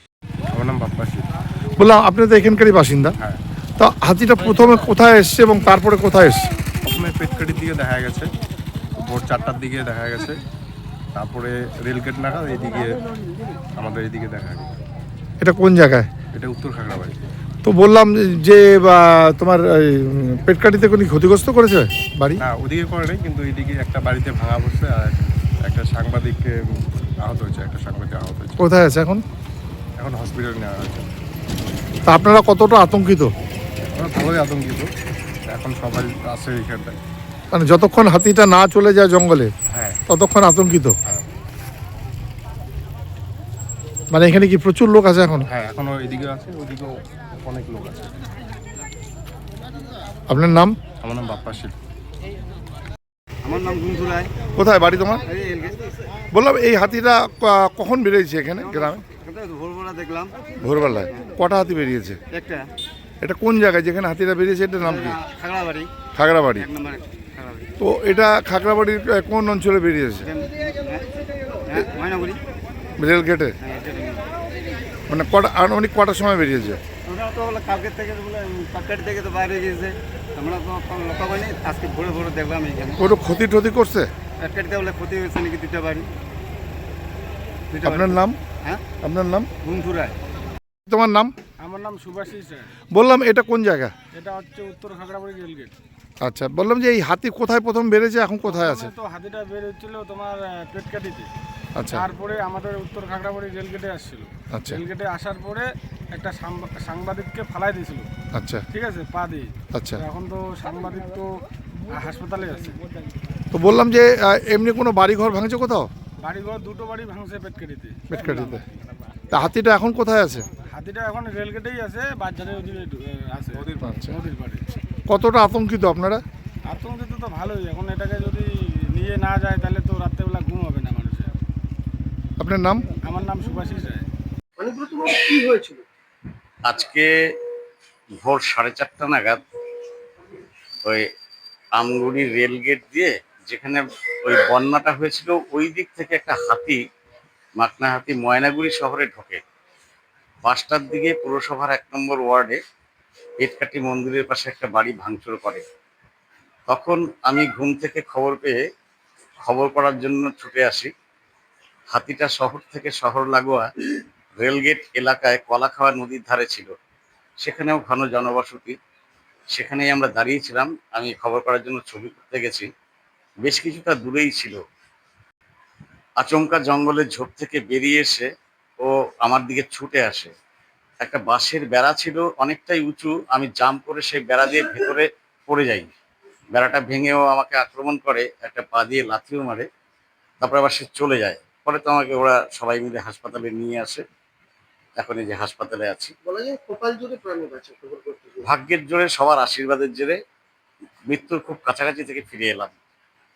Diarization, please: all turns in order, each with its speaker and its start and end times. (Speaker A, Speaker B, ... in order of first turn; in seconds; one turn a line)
Speaker A: 0.5-1.3
Speaker B: 1.8-3.1
Speaker B: 3.8-6.5
Speaker A: 6.8-8.3
Speaker A: 9.0-10.4
Speaker A: 11.1-13.0
Speaker A: 13.8-14.8
Speaker B: 15.4-16.1
Speaker A: 16.3-17.2
Speaker B: 17.6-22.4
Speaker A: 22.4-26.6
Speaker A: 27.2-28.6
Speaker B: 28.6-29.2
Speaker A: 30.0-31.1
Speaker B: 32.1-33.3
Speaker A: 33.9-34.9
Speaker A: 35.5-37.0
Speaker B: 37.5-39.5
Speaker A: 39.7-40.0
Speaker B: 40.1-40.9
Speaker B: 44.1-45.5
Speaker A: 45.5-48.2
Speaker B: 50.3-50.8
Speaker A: 51.0-51.8
Speaker C: 53.4-54.3
Speaker B: 54.6-55.2
Speaker C: 55.2-55.9
Speaker B: 56.3-59.0
Speaker C: 58.6-60.4
Speaker B: 60.6-62.2
Speaker C: 62.3-62.7
Speaker B: 63.2-65.2
Speaker C: 64.8-65.9
Speaker B: 66.2-66.7
Speaker C: 66.5-67.7
Speaker B: 67.8-70.3
Speaker C: 70.2-71.1
Speaker C: 71.6-72.4
Speaker B: 73.0-73.5
Speaker C: 73.6-74.3
Speaker B: 75.1-76.8
Speaker C: 77.0-83.1
Speaker B: 83.0-84.1
Speaker C: 84.4-86.1
Speaker C: 87.7-88.8
Speaker B: 87.8-88.4
Speaker B: 89.0-89.5
Speaker C: 89.6-90.2
Speaker B: 90.9-91.3
Speaker D: 91.6-92.7
Speaker B: 92.9-93.9
Speaker D: 94.1-95.8
Speaker B: 96.2-98.9
Speaker D: 98.5-101.3
Speaker B: 101.8-102.0
Speaker D: 101.9-108.1
Speaker B: 104.5-104.8
Speaker B: 108.3-108.6
Speaker D: 108.7-112.8
Speaker B: 109.7-110.0
Speaker B: 113.5-115.9
Speaker D: 116.2-118.6
Speaker B: 118.1-118.6
Speaker B: 119.3-120.4
Speaker D: 120.7-124.6
Speaker B: 123.8-124.1
Speaker B: 125.1-126.2
Speaker D: 126.7-131.3
Speaker B: 132.4-132.9
Speaker D: 133.0-134.1
Speaker E: 134.6-135.8
Speaker F: 136.6-137.1
Speaker F: 138.2-139.4
Speaker F: 141.8-146.8
Speaker F: 147.6-149.4
Speaker F: 150.4-152.6
Speaker F: 153.4-155.7
Speaker F: 156.7-158.6
Speaker F: 159.4-160.9
Speaker F: 161.9-163.7
Speaker F: 164.4-166.7
Speaker F: 167.4-168.8
Speaker F: 169.5-172.7
Speaker F: 173.4-174.6
Speaker F: 176.2-178.3
Speaker F: 178.8-180.3
Speaker F: 181.0-185.9
Speaker F: 186.5-189.7
Speaker F: 190.4-194.0
Speaker F: 195.0-196.1
Speaker E: 196.2-198.5
Speaker F: 198.4-200.2
Speaker F: 201.1-202.8